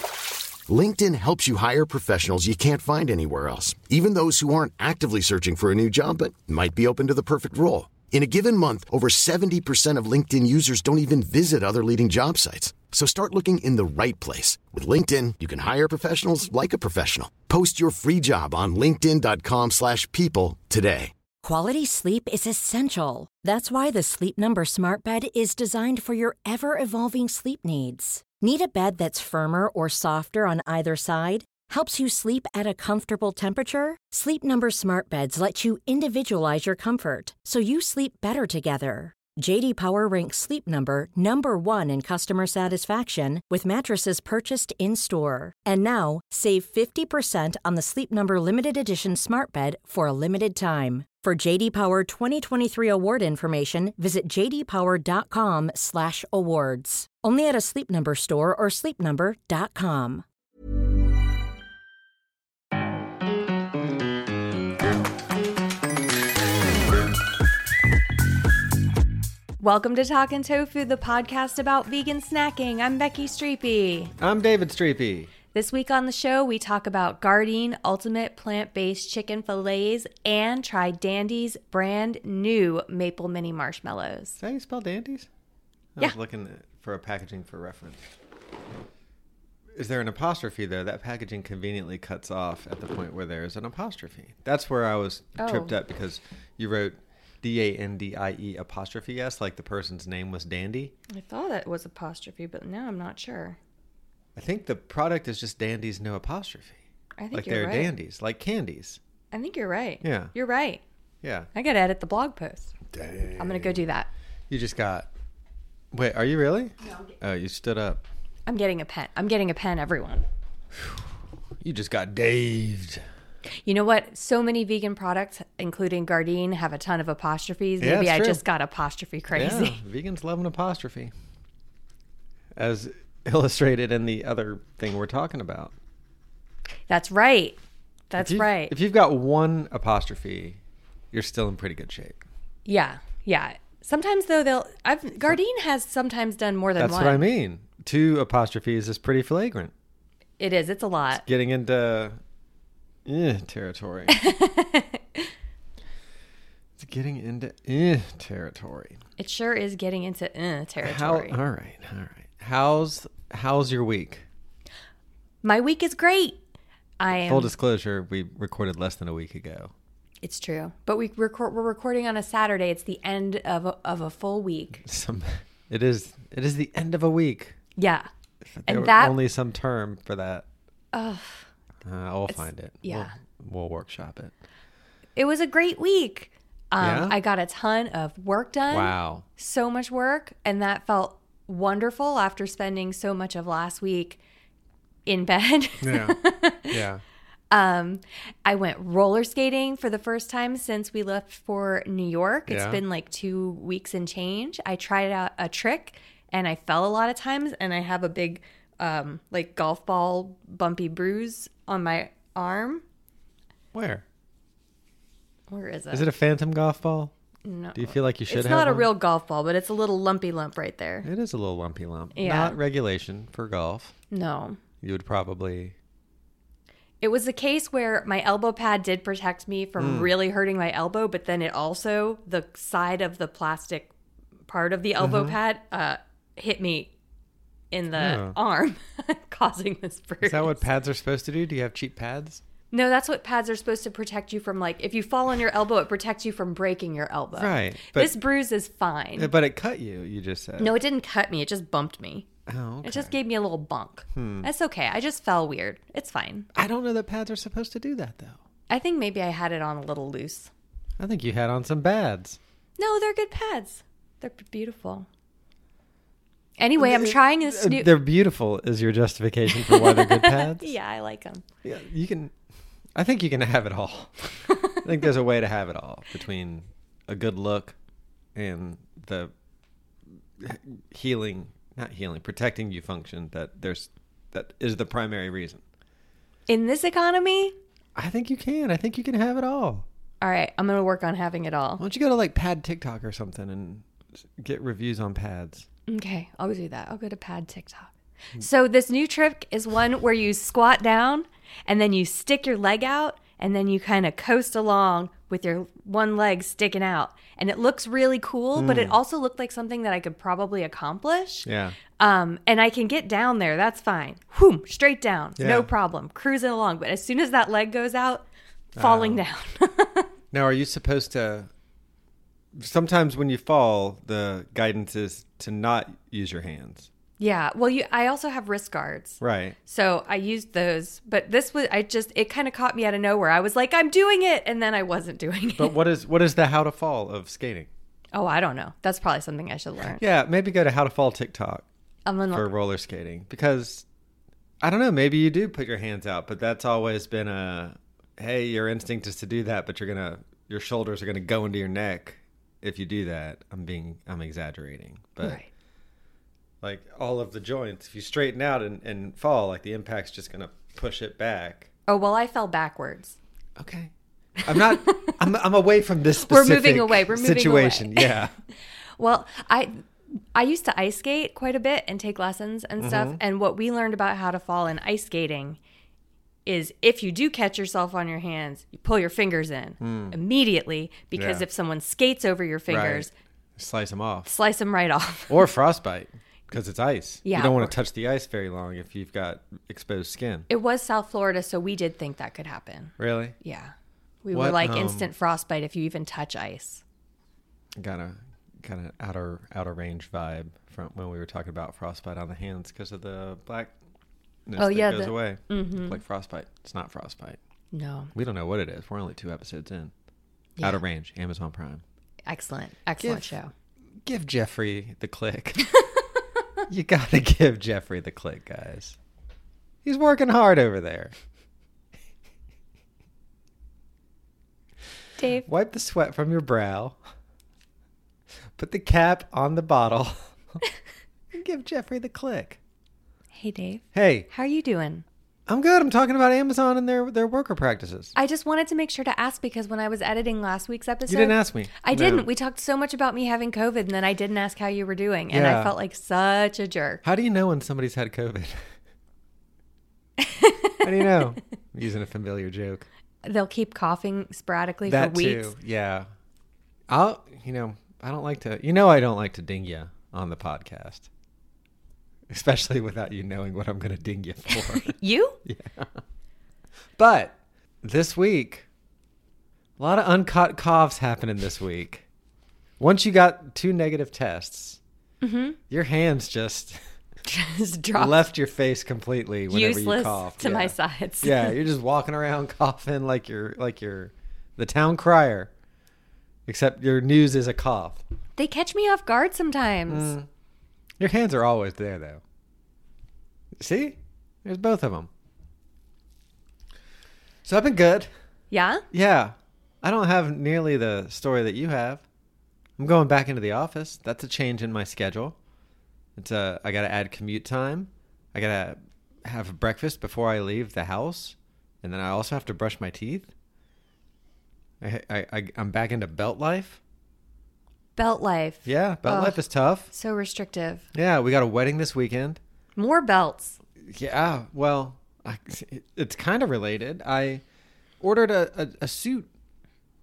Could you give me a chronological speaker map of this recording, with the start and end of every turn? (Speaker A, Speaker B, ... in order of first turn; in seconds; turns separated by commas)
Speaker A: 0.7-21.1, Speaker B: 21.4-60.2, Speaker C: 69.6-74.1, Speaker D: 74.2-75.3, Speaker C: 75.5-84.4, Speaker D: 84.4-85.3, Speaker D: 86.0-88.0, Speaker D: 89.8-100.9, Speaker C: 95.4-95.7, Speaker C: 101.1-103.6, Speaker D: 104.3-106.8, Speaker C: 107.2-107.9, Speaker D: 107.3-109.0, Speaker C: 109.3-110.8, Speaker D: 110.0-110.3, Speaker D: 111.2-111.5, Speaker C: 111.5-112.7, Speaker D: 112.9-113.8, Speaker C: 113.4-114.1, Speaker D: 114.5-115.1, Speaker D: 115.9-118.0, Speaker C: 116.8-117.1, Speaker C: 118.5-120.2, Speaker D: 120.8-121.1, Speaker D: 121.6-123.0, Speaker C: 123.6-129.8, Speaker D: 127.8-128.4, Speaker D: 129.3-131.1, Speaker D: 132.6-135.7, Speaker C: 136.9-137.6, Speaker C: 138.1-138.7, Speaker D: 138.2-140.6, Speaker D: 141.1-142.2, Speaker C: 142.7-147.3, Speaker D: 146.8-149.7, Speaker C: 150.4-151.2, Speaker D: 151.2-152.2, Speaker D: 153.0-154.3, Speaker C: 154.1-155.3, Speaker D: 156.8-159.0, Speaker C: 159.2-161.3, Speaker D: 160.8-164.2, Speaker C: 165.4-166.4, Speaker C: 167.0-167.5, Speaker D: 167.1-169.7, Speaker C: 170.2-174.8, Speaker D: 174.8-177.6, Speaker C: 177.8-178.1, Speaker D: 178.6-180.4, Speaker C: 178.7-179.2, Speaker C: 180.9-181.5, Speaker D: 181.8-184.3, Speaker C: 182.3-183.1, Speaker C: 185.2-194.2, Speaker D: 186.8-187.2, Speaker D: 188.7-189.2, Speaker C: 195.1-196.8, Speaker D: 195.8-196.2, Speaker D: 196.7-197.0, Speaker C: 197.5-212.8, Speaker D: 202.5-202.8, Speaker D: 213.7-214.0, Speaker C: 215.5-216.1, Speaker D: 215.9-217.1, Speaker C: 217.4-221.1, Speaker D: 217.8-218.9, Speaker D: 221.0-223.9, Speaker C: 222.1-222.6, Speaker C: 224.1-224.6, Speaker D: 224.8-225.8, Speaker C: 227.0-233.9, Speaker D: 229.8-230.1, Speaker C: 234.5-236.9, Speaker D: 235.0-235.3, Speaker C: 237.7-240.6, Speaker D: 237.9-238.3, Speaker D: 240.2-242.4, Speaker C: 242.7-249.3, Speaker D: 247.3-248.1, Speaker D: 249.2-250.7, Speaker C: 250.6-252.2, Speaker D: 252.5-253.1, Speaker C: 252.8-256.5, Speaker D: 254.1-254.5, Speaker D: 256.6-258.4, Speaker C: 258.7-260.5, Speaker D: 261.0-262.4, Speaker C: 262.8-265.1, Speaker C: 266.6-267.9, Speaker D: 266.8-270.7, Speaker C: 269.5-271.4, Speaker D: 271.6-272.3, Speaker D: 272.9-274.1, Speaker D: 274.8-277.8, Speaker D: 278.3-279.3, Speaker D: 280.4-285.6, Speaker C: 286.5-287.6, Speaker D: 287.9-289.8, Speaker C: 290.2-291.8, Speaker D: 291.8-293.9, Speaker D: 294.4-295.6, Speaker C: 295.9-311.5, Speaker D: 308.6-308.9, Speaker D: 311.4-311.8, Speaker C: 312.0-320.1, Speaker D: 315.4-315.7, Speaker D: 318.8-319.2, Speaker D: 320.3-321.5, Speaker D: 322.6-326.9, Speaker C: 327.2-335.8, Speaker D: 329.2-329.6, Speaker D: 335.6-337.7, Speaker C: 338.1-340.0, Speaker D: 339.9-341.6, Speaker C: 342.1-342.5, Speaker D: 342.3-343.8, Speaker D: 344.6-355.4, Speaker D: 356.6-361.7, Speaker C: 361.9-363.2, Speaker D: 363.6-363.9, Speaker D: 364.4-368.3, Speaker C: 364.4-365.1, Speaker C: 366.2-368.2, Speaker C: 369.0-369.8, Speaker C: 370.3-375.6, Speaker D: 372.8-373.2, Speaker C: 376.4-383.1, Speaker D: 379.8-380.1, Speaker D: 381.1-381.4, Speaker D: 382.7-384.3, Speaker C: 384.3-385.5, Speaker D: 385.3-390.5, Speaker C: 387.2-387.8, Speaker C: 390.5-393.7, Speaker D: 393.0-393.4, Speaker C: 394.2-396.8, Speaker D: 394.3-395.1, Speaker D: 397.8-403.7, Speaker D: 404.5-407.4, Speaker C: 404.6-406.0, Speaker C: 407.7-408.1, Speaker D: 408.1-409.9, Speaker D: 410.6-411.8, Speaker C: 412.2-413.5, Speaker D: 413.0-413.3, Speaker D: 414.1-415.6, Speaker D: 416.7-419.0, Speaker D: 419.8-421.1, Speaker C: 425.2-425.5, Speaker D: 425.4-427.0, Speaker D: 428.6-430.6, Speaker D: 431.3-432.6, Speaker C: 433.3-435.0, Speaker D: 433.9-434.3, Speaker D: 435.5-438.1, Speaker C: 438.1-447.0, Speaker D: 441.1-442.3, Speaker D: 445.3-445.8, Speaker D: 447.0-448.7, Speaker C: 450.2-451.1, Speaker D: 450.8-452.9, Speaker C: 453.2-455.5, Speaker D: 454.8-456.1, Speaker D: 456.9-461.1, Speaker D: 462.3-466.0, Speaker C: 464.9-465.4, Speaker D: 467.0-468.6, Speaker D: 469.8-472.1, Speaker D: 472.8-474.8, Speaker C: 475.2-475.6, Speaker D: 475.7-476.8, Speaker C: 477.2-478.2, Speaker D: 477.9-485.5, Speaker C: 479.5-481.6, Speaker D: 486.5-488.0, Speaker C: 488.4-490.1, Speaker D: 489.9-490.3, Speaker D: 491.0-492.2, Speaker D: 493.6-495.1, Speaker D: 497.4-498.1, Speaker C: 498.5-498.8, Speaker D: 498.9-502.0, Speaker D: 502.8-505.4, Speaker D: 506.2-513.3, Speaker D: 514.8-516.8, Speaker C: 518.0-519.4, Speaker D: 518.6-519.9, Speaker C: 519.9-520.9, Speaker D: 521.0-522.4, Speaker C: 522.8-523.6, Speaker D: 523.8-527.4, Speaker D: 528.0-529.3